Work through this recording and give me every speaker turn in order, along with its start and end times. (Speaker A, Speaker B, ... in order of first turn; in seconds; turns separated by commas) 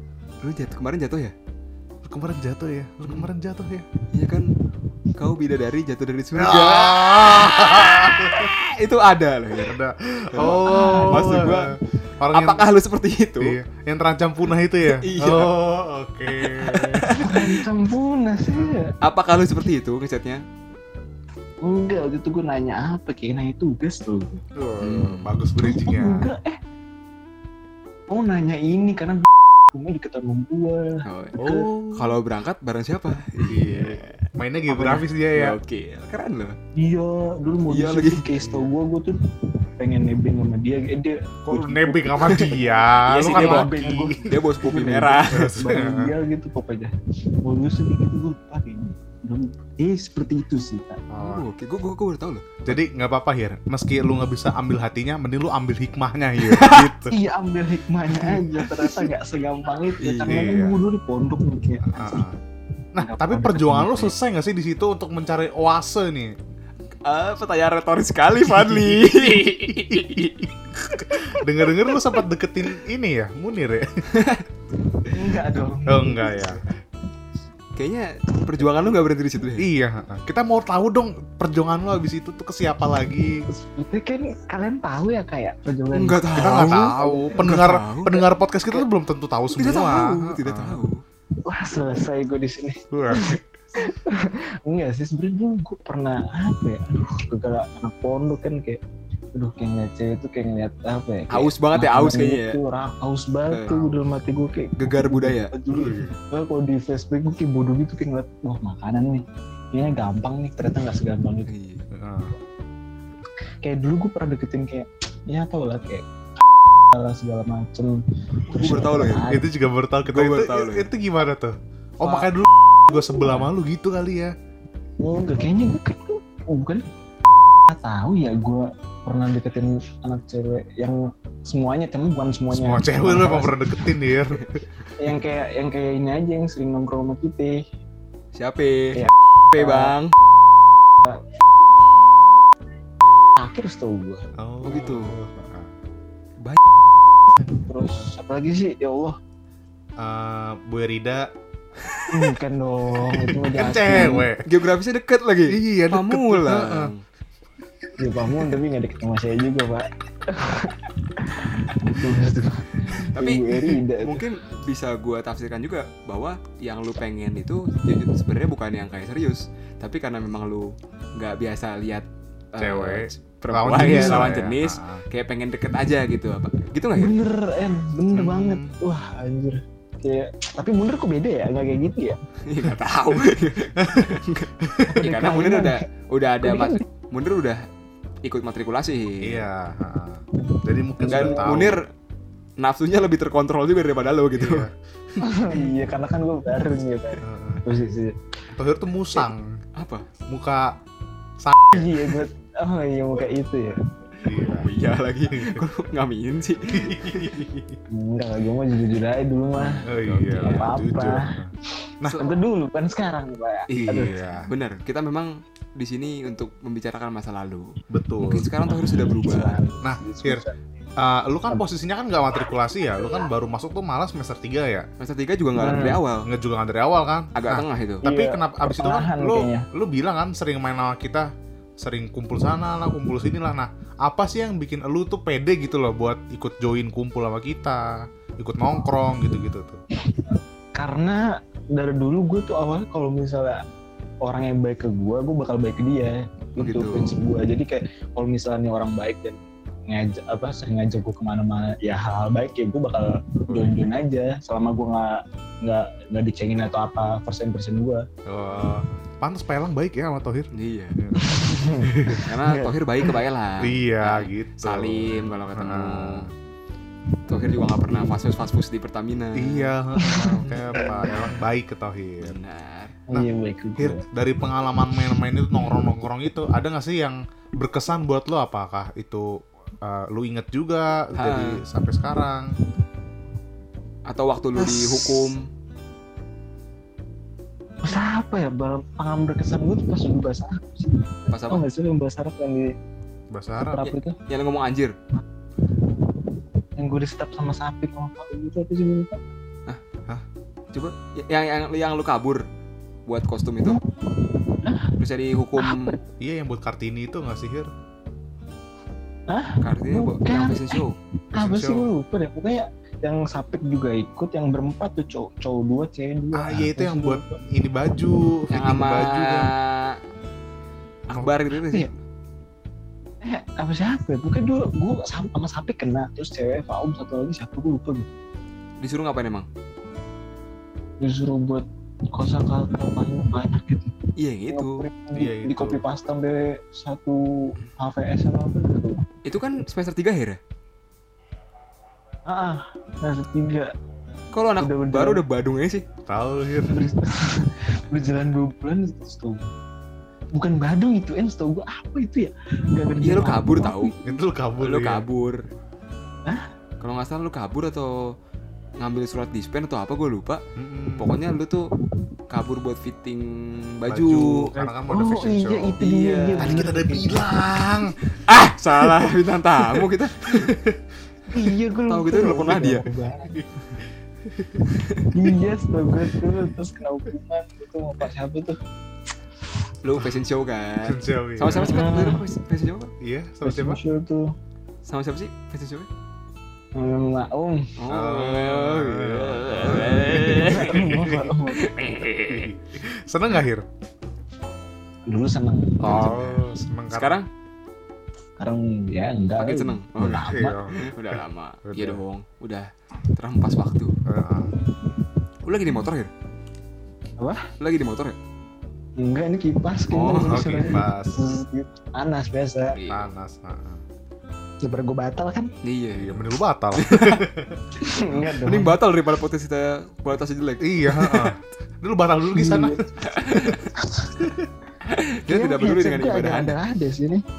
Speaker A: 0.4-1.3, Speaker B: 2.0-3.9, Speaker A: 4.1-4.5, Speaker A: 5.1-9.8, Speaker B: 6.3-8.5, Speaker B: 9.6-11.6, Speaker A: 10.3-11.7, Speaker C: 10.4-11.2, Speaker B: 12.2-12.7, Speaker A: 12.3-13.6, Speaker B: 13.4-17.1, Speaker A: 14.9-15.5, Speaker A: 16.3-17.5, Speaker C: 17.1-18.9, Speaker B: 18.5-18.8, Speaker A: 19.0-20.4, Speaker C: 21.6-24.4, Speaker B: 24.5-26.3, Speaker A: 24.8-25.3, Speaker C: 25.6-26.6, Speaker C: 28.1-31.7, Speaker A: 31.0-31.4, Speaker B: 31.4-32.2, Speaker A: 31.9-34.3, Speaker B: 33.5-35.6, Speaker C: 34.7-35.0, Speaker A: 35.3-36.6, Speaker C: 36.7-51.0, Speaker A: 37.7-38.2, Speaker B: 38.4-38.7, Speaker B: 41.5-44.2, Speaker A: 43.1-43.7, Speaker A: 44.2-45.5, Speaker B: 45.3-46.1, Speaker B: 51.1-51.4, Speaker A: 51.2-52.7, Speaker B: 52.6-57.1, Speaker A: 56.4-56.9, Speaker C: 57.1-62.3, Speaker A: 60.0-60.4, Speaker B: 60.3-60.8, Speaker B: 61.9-62.4, Speaker C: 62.9-64.1, Speaker B: 62.9-66.3, Speaker A: 67.0-70.5, Speaker B: 68.6-74.1, Speaker A: 74.1-74.4, Speaker C: 75.1-76.6, Speaker B: 75.5-76.6, Speaker A: 77.8-79.7, Speaker B: 79.6-83.4, Speaker C: 83.5-87.5, Speaker A: 85.9-88.2, Speaker B: 86.4-90.9, Speaker A: 89.5-91.0, Speaker C: 91.4-98.8, Speaker B: 92.9-93.4, Speaker C: 99.3-111.5, Speaker A: 101.3-102.6, Speaker A: 103.5-104.0, Speaker A: 104.8-105.5, Speaker B: 105.7-106.1, Speaker A: 111.5-111.8, Speaker B: 111.9-112.3, Speaker C: 113.6-116.0, Speaker C: 116.9-118.0, Speaker A: 118.5-119.3, Speaker C: 118.5-119.5, Speaker B: 119.2-124.3, Speaker A: 120.1-120.9, Speaker C: 122.9-123.5, Speaker C: 125.0-126.8, Speaker C: 127.7-133.8, Speaker B: 132.5-134.6, Speaker C: 135.0-137.6, Speaker A: 138.3-140.1, Speaker C: 138.9-139.9, Speaker C: 143.3-144.2, Speaker B: 144.3-145.7, Speaker A: 144.6-145.1, Speaker C: 147.4-149.2, Speaker B: 150.0-151.3, Speaker C: 152.1-154.3, Speaker B: 153.1-154.4, Speaker A: 154.4-157.0, Speaker B: 155.5-156.9, Speaker C: 158.0-164.2, Speaker A: 163.1-177.1, Speaker B: 172.6-175.0, Speaker C: 173.8-174.3, Speaker C: 176.9-182.2, Speaker B: 178.1-178.8, Speaker A: 182.4-187.6, Speaker B: 183.8-185.0, Speaker C: 184.9-185.8, Speaker C: 186.4-186.8, Speaker A: 188.2-189.4, Speaker B: 189.2-191.8, Speaker C: 191.0-191.7, Speaker A: 191.0-191.9, Speaker A: 192.6-194.7, Speaker B: 194.3-195.2, Speaker C: 195.2-198.2, Speaker B: 197.2-197.6, Speaker B: 198.5-199.6, Speaker A: 199.8-200.1, Speaker B: 200.3-200.8, Speaker B: 201.4-202.1, Speaker C: 201.7-203.9, Speaker B: 204.2-204.7, Speaker A: 204.5-207.3, Speaker B: 205.3-205.6, Speaker B: 206.7-207.8, Speaker C: 207.9-211.3, Speaker A: 209.6-210.7, Speaker B: 209.8-212.2, Speaker C: 212.2-214.2, Speaker A: 213.7-219.6, Speaker B: 213.8-214.5, Speaker B: 217.9-218.5, Speaker C: 218.7-220.6, Speaker B: 219.8-220.4, Speaker B: 221.0-224.9, Speaker A: 225.0-226.3, Speaker C: 225.6-226.0, Speaker B: 226.2-239.8, Speaker A: 227.3-228.0, Speaker C: 228.0-229.7, Speaker C: 240.1-243.6, Speaker C: 244.2-258.0, Speaker A: 246.6-247.2, Speaker B: 253.5-253.8, Speaker B: 258.3-262.2, Speaker A: 260.5-261.0, Speaker C: 261.1-263.1, Speaker A: 262.1-266.3, Speaker B: 263.6-266.3, Speaker A: 267.3-269.7, Speaker B: 269.3-272.4, Speaker C: 270.0-271.2, Speaker A: 270.4-270.8, Speaker A: 272.2-272.9, Speaker C: 273.1-274.0, Speaker B: 273.1-282.5, Speaker A: 281.1-281.6, Speaker A: 284.1-285.4, Speaker C: 284.6-285.3, Speaker C: 287.8-292.7, Speaker A: 291.3-291.6, Speaker B: 293.3-293.8, Speaker C: 293.7-294.1, Speaker A: 293.8-294.9, Speaker C: 296.8-299.2, Speaker A: 300.7-302.4, Speaker A: 303.1-303.8, Speaker C: 304.6-304.9, Speaker A: 305.0-305.9, Speaker C: 305.6-306.0, Speaker B: 306.2-307.7, Speaker C: 309.3-317.4, Speaker A: 309.6-310.9, Speaker B: 311.3-311.9, Speaker B: 316.3-319.5, Speaker A: 318.5-320.0, Speaker A: 321.1-321.9, Speaker C: 323.2-328.1, Speaker A: 328.8-329.5, Speaker C: 331.0-334.0, Speaker A: 334.2-334.9, Speaker C: 334.5-339.0, Speaker B: 335.1-335.8, Speaker A: 339.2-340.4, Speaker C: 342.2-343.7, Speaker A: 344.3-345.8, Speaker C: 344.6-345.2, Speaker B: 346.1-346.8, Speaker C: 346.6-349.5, Speaker C: 350.3-354.1, Speaker A: 353.0-353.9, Speaker B: 354.0-355.0, Speaker A: 354.6-355.4, Speaker A: 356.8-358.1, Speaker A: 358.8-360.4, Speaker B: 360.6-361.1, Speaker A: 361.0-361.7, Speaker A: 362.3-364.5, Speaker B: 363.9-365.8, Speaker C: 364.5-367.2, Speaker A: 365.8-366.8, Speaker B: 366.4-367.9, Speaker A: 368.2-370.6, Speaker B: 370.3-370.8, Speaker C: 371.3-373.4, Speaker A: 371.9-372.8, Speaker B: 374.2-374.6, Speaker A: 374.7-375.1, Speaker C: 375.1-378.6, Speaker A: 379.8-382.9, Speaker B: 380.8-381.7, Speaker C: 381.5-382.2, Speaker B: 383.0-383.8, Speaker C: 383.4-384.3, Speaker A: 384.8-385.9, Speaker C: 386.7-387.7, Speaker A: 387.8-390.9, Speaker B: 387.9-391.3, Speaker C: 390.2-391.8, Speaker A: 391.5-392.5, Speaker B: 392.3-393.7, Speaker C: 395.1-396.1, Speaker B: 395.8-397.2, Speaker A: 395.8-397.3, Speaker C: 398.4-400.6, Speaker A: 399.4-403.9, Speaker B: 400.0-402.0, Speaker B: 404.0-404.5, Speaker A: 405.4-406.1, Speaker C: 407.2-407.5, Speaker A: 407.6-408.1, Speaker C: 409.0-412.8, Speaker A: 409.9-410.8, Speaker B: 410.2-411.3, Speaker A: 412.7-413.1, Speaker B: 412.9-413.8, Speaker C: 414.6-415.5, Speaker A: 415.6-417.2, Speaker B: 415.9-417.6, Speaker C: 417.8-418.8, Speaker A: 418.4-421.3, Speaker B: 420.6-422.8, Speaker C: 422.3-424.2, Speaker A: 423.0-423.6, Speaker B: 424.2-424.5, Speaker A: 424.8-426.6, Speaker C: 425.3-427.2